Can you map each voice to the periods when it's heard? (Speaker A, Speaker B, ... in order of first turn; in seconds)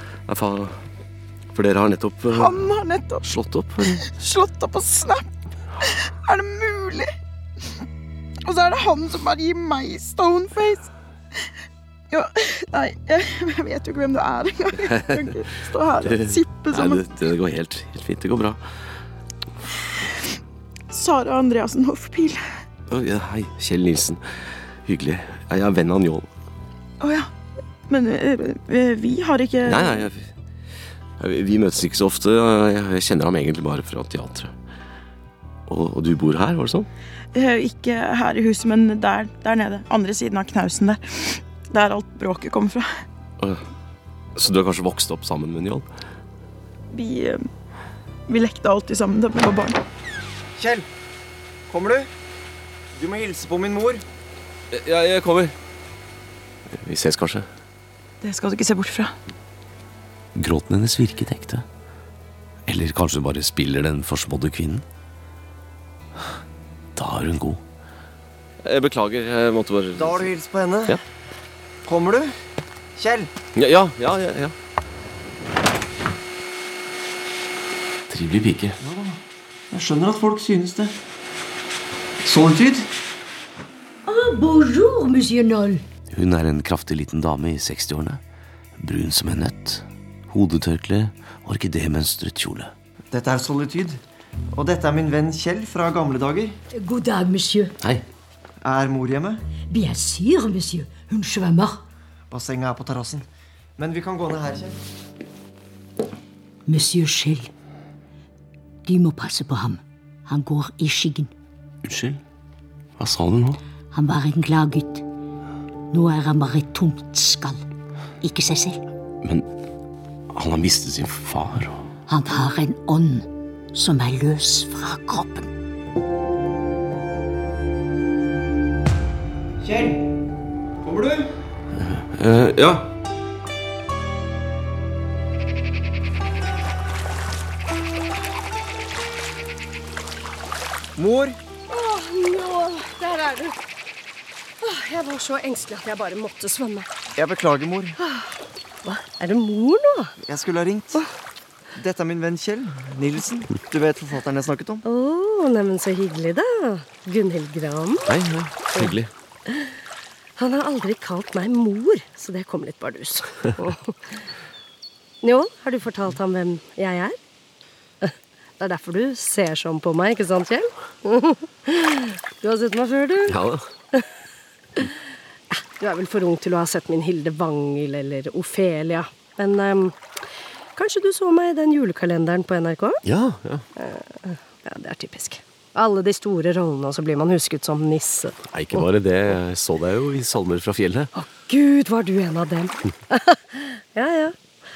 Speaker A: 0.3-0.8, 1.5-2.5, 3.3-3.9, 16.1-18.6, 22.9-24.2, 24.9-26.3, 29.7-30.3, 31.2-34.5, 35.7-36.9, 44.4-45.8, 54.7-55.5, 56.7-57.5, 68.6-70.3, 73.5-74.5, 78.1-78.7, 132.2-132.8, 158.1-159.1, 173.3-173.6, 183.0-183.6, 188.5-191.1
Speaker B: 2.3-3.3, 3.9-5.3, 5.8-7.1, 8.4-10.9, 12.1-17.0, 20.9-22.4, 27.0-27.3, 27.9-30.0, 37.3-43.0, 46.9-47.5, 48.3-49.8, 58.2-59.1
Speaker C: 50.5-50.9, 51.7-52.1, 52.9-54.0, 69.9-71.0, 71.8-72.4, 73.0-73.3, 78.8-79.2, 79.7-81.0, 82.2-82.9, 93.1-94.0, 94.5-96.6, 98.6-99.4, 102.3-103.2, 103.8-104.8, 129.6-130.0, 130.8-131.2, 140.9-141.4, 147.2-148.0, 150.2-151.0, 151.7-154.8
Speaker D: 60.4-61.6, 62.7-64.8, 67.0-67.6, 86.1-88.2, 88.8-92.7, 111.8-112.2, 113.0-113.6, 120.3-121.8
Speaker E: 84.0-85.8, 96.7-97.7, 99.7-101.8, 106.7-107.5, 108.8-111.3, 113.9-115.0, 115.9-117.6, 118.2-118.8, 122.1-125.5
Speaker F: 141.7-143.5, 144.6-146.9, 148.0-148.3, 148.8-150.1, 154.8-158.1, 160.4-163.9, 165.2-167.2, 168.0-173.4, 175.8-179.9, 180.8-183.0, 183.8-188.8, 191.2-194.3